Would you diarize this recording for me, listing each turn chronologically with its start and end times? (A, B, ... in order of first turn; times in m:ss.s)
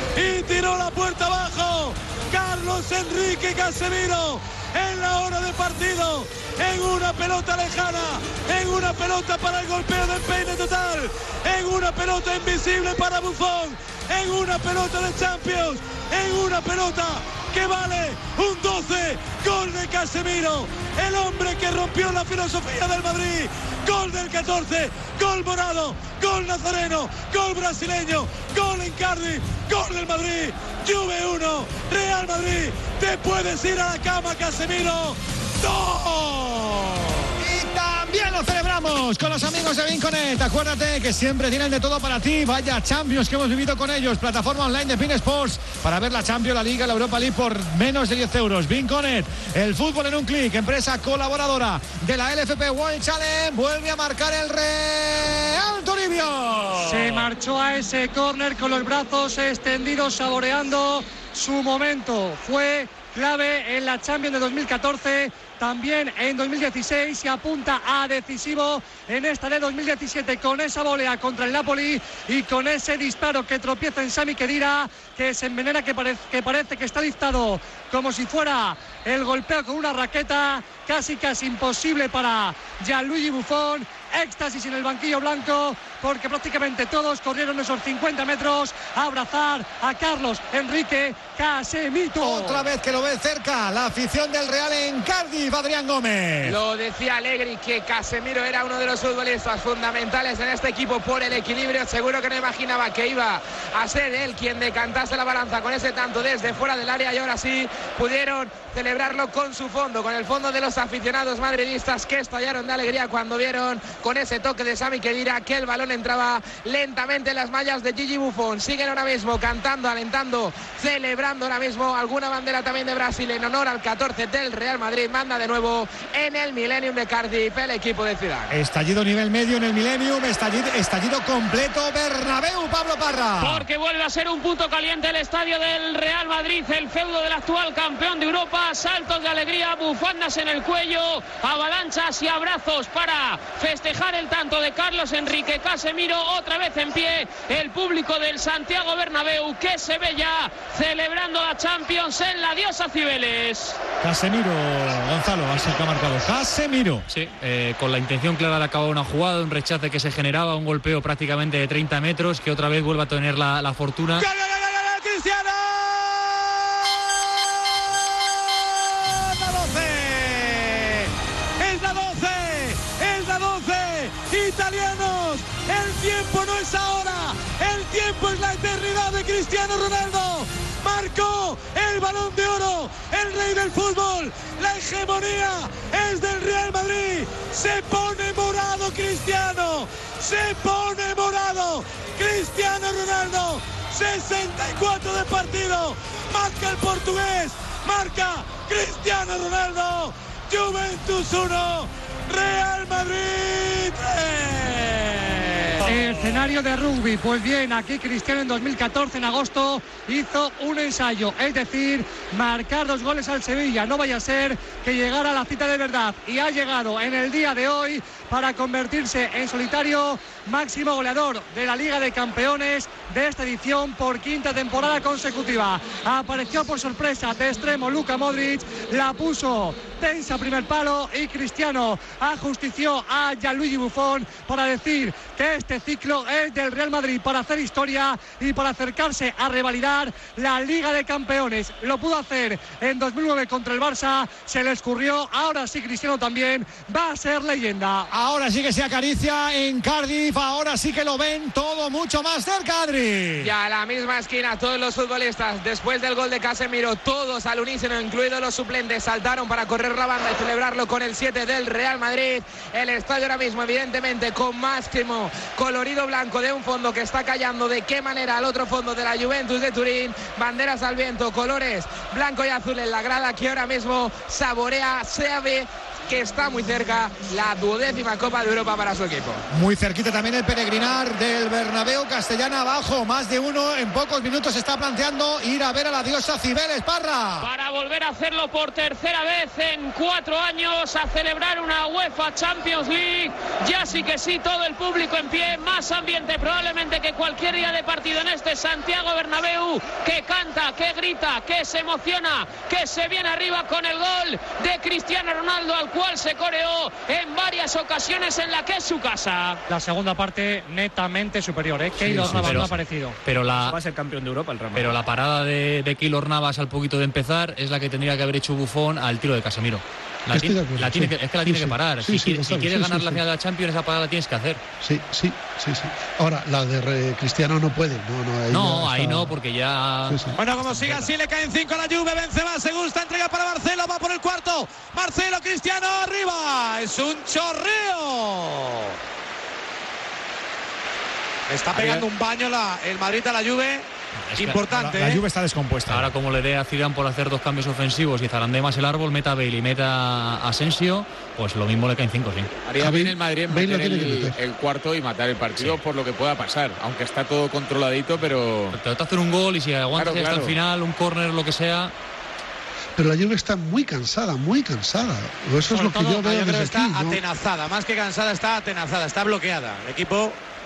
0:00.2-0:37.1 A
0:37.4-0:57.3 B
0:56.8-1:32.7 C
1:32.2-1:36.6 B
1:36.4-2:08.5 D
2:08.5-2:13.7 B
2:13.4-2:33.8 E
2:34.0-2:37.0 B
2:37.1-2:44.2 F
2:44.2-3:25.8 A
3:25.8-4:08.1 C
4:08.1-4:13.5 B
4:13.4-4:39.4 D
4:39.5-4:47.5 B
4:47.4-5:09.6 E
5:09.7-5:13.2 C
5:12.0-5:12.6 G
5:12.2-5:13.8 F
5:13.5-5:15.0 G
5:14.7-5:24.6 F
5:20.3-5:23.2 H
5:24.8-5:29.4 H
5:28.5-5:31.1 F
5:30.1-5:30.4 H
5:30.3-5:39.0 A
5:41.5-5:45.2 A
5:41.7-5:42.0 F
5:44.3-5:44.6 F
5:44.7-5:46.1 B
5:45.9-5:52.5 F
5:52.6-5:58.8 I
5:52.8-5:54.4 H
5:58.7-6:01.9 F
5:59.9-6:00.6 I
6:03.0-6:07.2 H
6:05.7-6:10.4 A